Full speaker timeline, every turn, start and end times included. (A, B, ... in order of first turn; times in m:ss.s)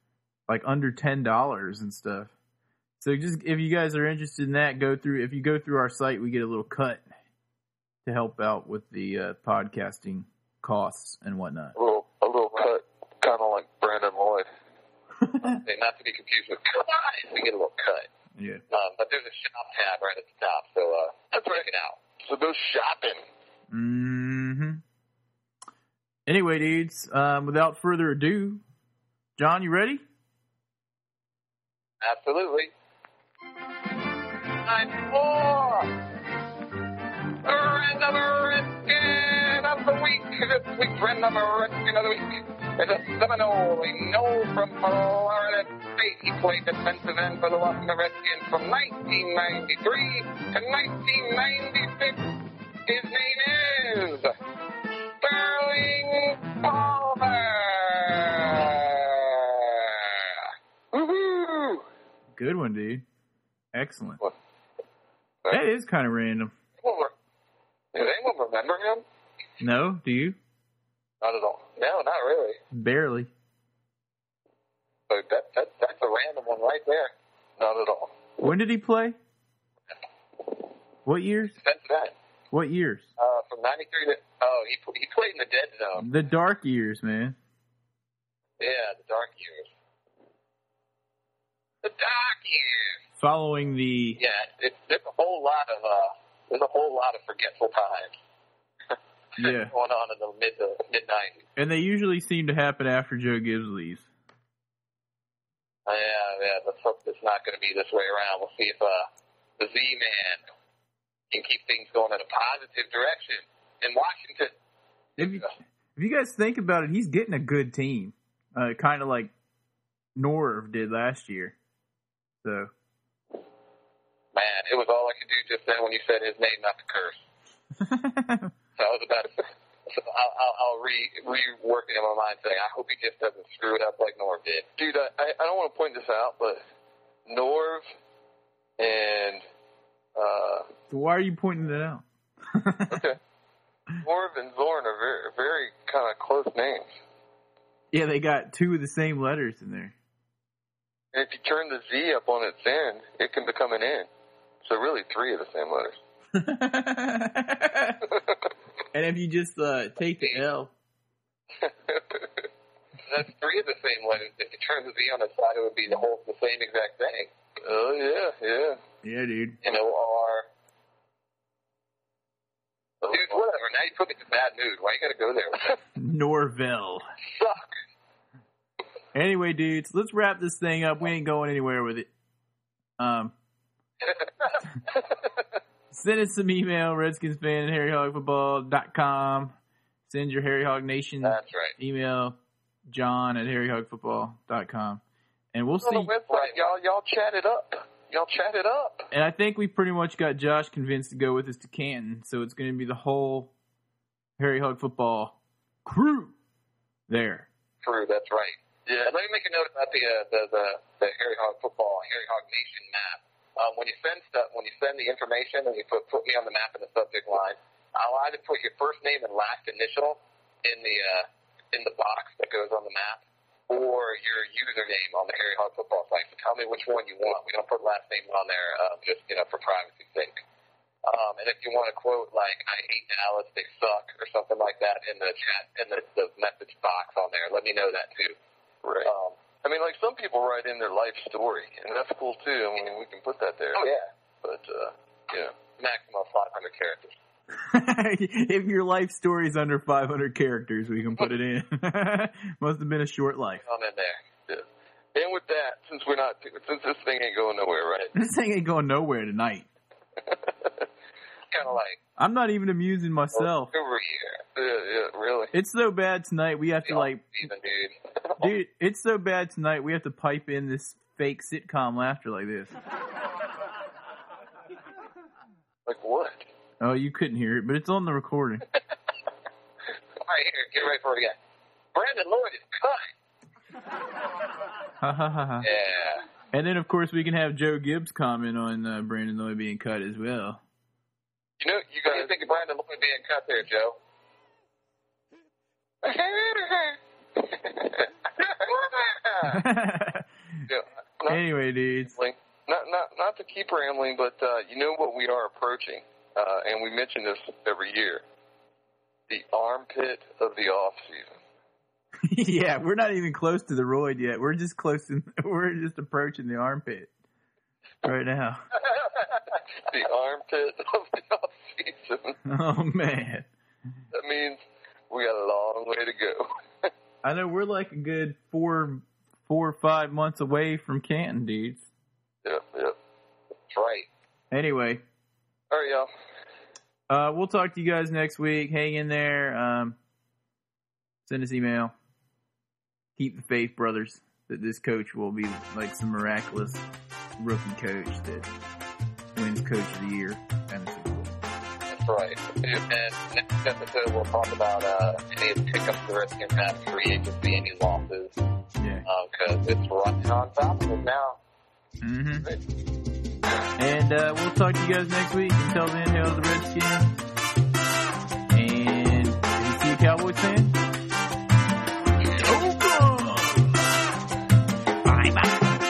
0:00.5-0:02.3 A
0:03.0-0:07.0 A
0:08.0-0:11.7 A
0:11.8-0:14.5 B
0:15.3-0:15.6 A
0:15.6-0:18.1 C
0:18.4-0:18.6 A
0:18.7-0:22.0 C
0:21.3-0:21.6 B
0:22.2-0:23.2 B
0:23.7-0:24.8 A
0:26.2-0:28.6 A
0:29.4-0:30.0 A
0:32.0-0:32.7 C
0:34.6-0:35.9 C
0:37.4-0:52.3 C
0:52.8-0:54.3 C
0:55.2-1:00.2 C
1:00.9-1:01.8 B
1:02.4-1:03.0 A
1:03.7-1:04.2 A
1:05.5-1:06.5 A
1:06.8-1:07.1 C
1:07.9-1:09.0 C
1:09.6-1:10.4 A
1:11.2-1:11.6 B
1:11.7-1:12.6 C
1:12.7-1:13.3 A
1:15.1-1:17.1 C
1:17.6-1:18.1 B
1:18.4-1:19.2 A
1:21.0-1:21.6 A
1:21.5-1:22.1 C
1:22.5-1:23.1 A
1:23.2-1:26.1 C
1:26.0-1:27.4 A
1:28.6-1:29.7 C
1:31.8-1:33.0 C
1:33.2-1:34.2 A
1:34.2-1:38.2 C
1:39.4-1:39.7 A
1:39.4-1:41.4 C
1:41.6-1:44.1 A
1:45.9-1:50.4 C
1:51.3-1:54.5 C
1:55.2-1:59.3 A
2:00.2-2:01.5 A
2:02.4-2:02.7 A
2:04.3-2:07.3 C
2:07.8-2:08.5 A
2:08.8-2:14.6 C
2:14.8-2:16.6 B
2:17.2-2:17.8 B
2:18.8-2:19.4 B
2:20.2-2:20.7 B
2:20.9-2:23.1 A
2:22.9-2:23.2 B
2:24.0-2:26.9 B
2:27.9-2:29.9 A
2:31.1-2:34.1 B
2:34.6-2:36.0 B
2:36.3-2:38.1 A
2:38.9-2:40.7 A
2:41.6-2:42.4 B
2:43.1-2:47.3 C
2:47.6-2:48.8 B
2:49.0-2:49.6 A
2:49.6-2:50.5 C
2:53.0-2:53.3 B
2:53.1-2:55.7 C
2:56.0-2:57.1 A
2:57.2-2:57.7 C
2:59.1-3:02.1 A
3:03.0-3:03.3 A
3:05.9-3:09.5 A
3:10.1-3:15.0 A
3:11.2-3:11.7 C
3:15.5-3:16.1 A
3:15.8-3:19.1 B
3:16.2-3:16.6 C
3:19.1-3:23.5 A
3:24.4-3:26.3 A
3:27.1-3:27.5 A
3:27.8-3:50.4 C
3:28.8-3:29.1 B
3:51.0-3:58.4 C
3:58.8-3:59.1 B
3:59.0-3:59.4 C
3:59.6-4:03.8 B
4:03.7-4:04.1 C
4:04.4-4:05.5 B
4:05.8-4:07.2 C
4:07.6-4:13.6 A
4:13.6-4:14.2 C
4:14.5-4:18.1 B
4:18.1-4:19.7 A
4:21.5-4:22.0 C
4:22.2-4:23.7 A
4:23.3-4:24.4 C
4:24.6-4:25.5 B
4:25.5-4:27.2 A
4:26.8-4:28.0 C
4:28.4-4:32.7 A
4:35.8-4:36.4 B
4:36.8-4:38.6 A
4:40.2-4:41.3 C
4:41.9-4:43.1 C
4:45.0-4:45.7 A
4:45.6-4:46.2 C
4:46.5-4:50.6 A
4:51.6-4:52.3 B
4:52.1-4:53.9 C
4:56.0-4:58.8 B
4:58.7-4:59.6 C
4:59.4-5:00.3 A
5:00.7-5:01.4 B
5:01.2-5:02.2 A
5:02.1-5:08.2 B
5:09.3-5:11.4 B
5:12.3-5:17.1 A
5:18.0-5:18.6 A
5:19.8-5:22.4 B
5:22.4-5:23.5 A
5:24.1-5:26.9 B
5:27.2-5:31.9 A
5:32.4-5:33.0 B
5:33.7-5:34.1 C
5:34.5-5:35.0 A
5:35.7-5:36.1 B
5:37.1-5:40.0 A
5:41.2-5:41.9 A
5:43.2-5:46.8 A
5:47.4-5:48.5 A
5:49.3-5:51.3 A
5:51.9-5:58.4 C
5:58.8-5:59.0 A
5:59.0-6:01.4 C
6:02.0-6:02.5 A
6:03.8-6:07.1 A
6:08.5-6:10.8 A
6:12.4-6:13.8 A
6:15.1-6:15.5 A